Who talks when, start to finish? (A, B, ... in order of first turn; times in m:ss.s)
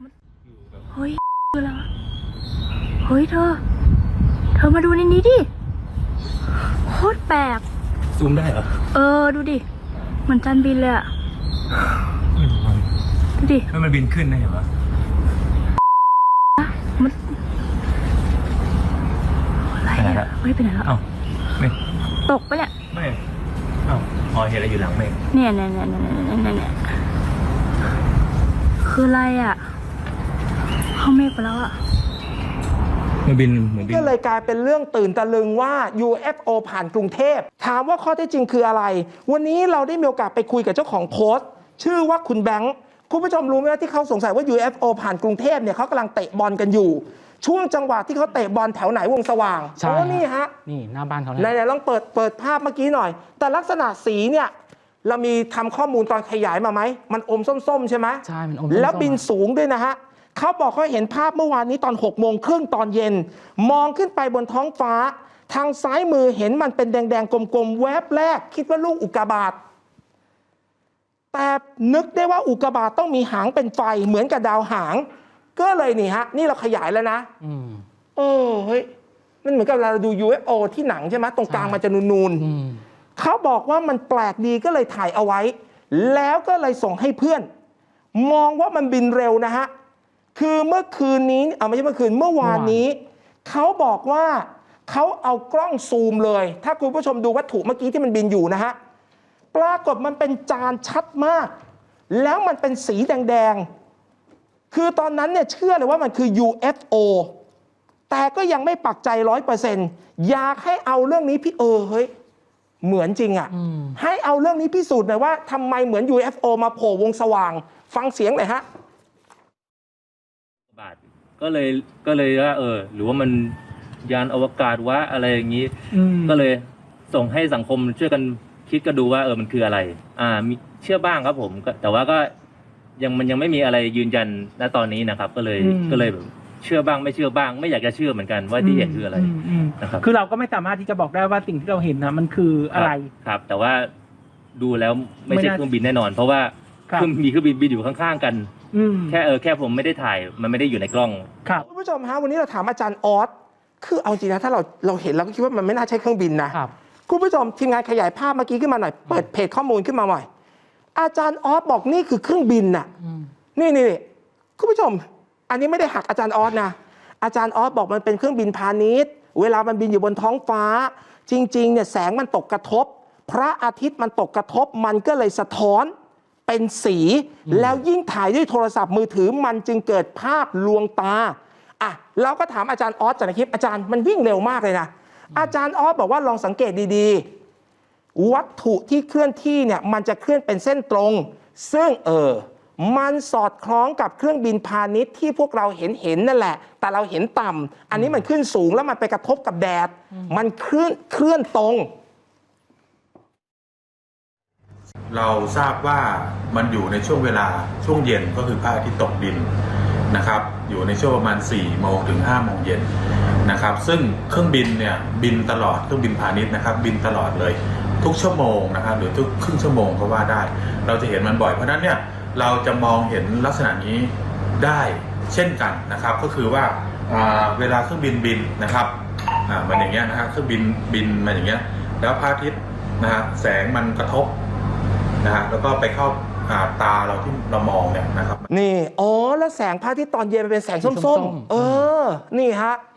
0:00.9-0:01.9 A
0:03.0-0:03.6 A
0:04.6-0:05.5 A
0:06.9-0:07.6 A
0:08.9-0:09.6 A
0:10.3-0:11.1 A
0:13.4-0:13.7 A
0:13.8-0:14.6 B
0:16.6-0:17.2 A
0:19.7-0:21.0 A
0:22.3-0:22.7 A
0:23.9-0:25.1 B
0:25.3-0:26.8 A
0:28.8-0:29.6 A
0:31.0-0:31.8 A
0:33.8-0:50.5 C
0:49.8-0:51.5 D
0:51.4-0:54.5 C
0:55.0-1:09.6 C
0:58.2-0:59.2 D
1:11.3-1:17.3 C
1:17.4-1:17.8 D
1:18.2-1:18.9 C
1:19.4-1:22.4 C
1:21.5-1:21.8 D
1:22.4-1:22.8 D
1:23.2-1:27.5 C
1:28.2-1:29.7 C
1:30.4-1:38.8 C
1:32.4-1:32.8 D
1:39.5-1:41.5 C
1:42.1-1:43.7 C
1:44.7-1:47.3 C
1:48.1-1:52.1 C
1:52.8-1:58.6 C
1:53.5-1:54.0 D
2:00.7-2:12.3 B
2:13.0-2:20.1 B
2:20.4-2:23.0 E
2:22.7-2:23.9 B
2:24.6-2:28.5 B
2:29.1-2:31.3 B
2:31.7-2:40.3 C
2:41.0-2:42.9 C
2:43.6-2:44.0 C
2:44.6-2:55.9 C
2:56.5-3:07.3 C
2:57.5-2:57.8 D
3:08.2-3:21.9 C
3:25.1-3:29.5 F
3:30.1-3:32.9 F
3:33.4-3:54.4 F
3:55.2-3:58.5 F
3:58.5-4:02.8 C
4:00.8-4:01.9 D